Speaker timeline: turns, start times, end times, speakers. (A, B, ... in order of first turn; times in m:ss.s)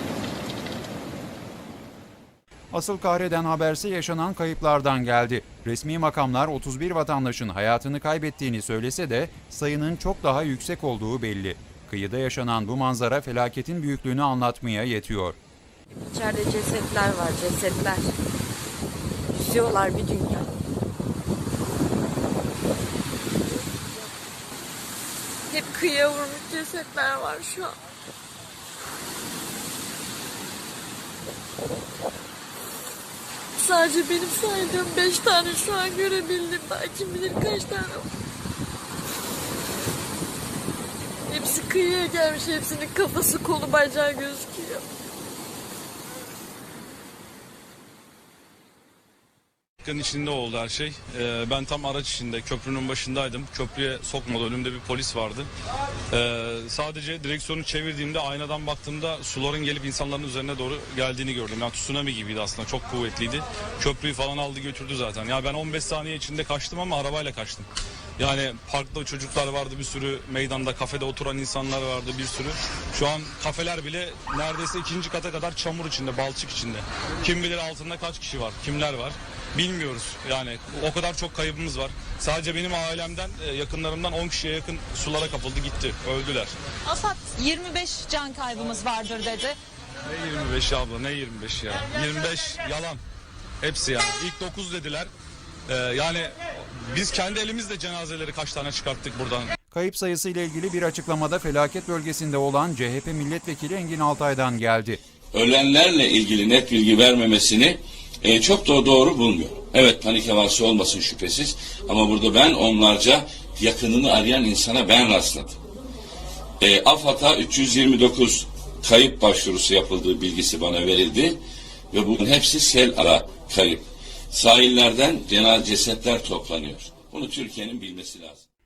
0:02.7-0:15.4 A
0:16.0-0:18.1 B
0:19.3-0:20.5 B
0:25.5-0:27.8 B
0:33.6-0:38.1 B
0:41.3-0:44.8 B
0:49.8-0:55.5 C
0:56.1-1:07.7 C
1:08.2-1:26.6 C
1:26.9-1:29.4 D
1:30.1-1:33.0 C
1:33.6-1:35.1 C
1:35.7-1:39.5 C
1:39.7-1:45.0 A
1:45.3-1:55.6 E
1:56.6-2:01.4 E
2:01.9-2:08.4 E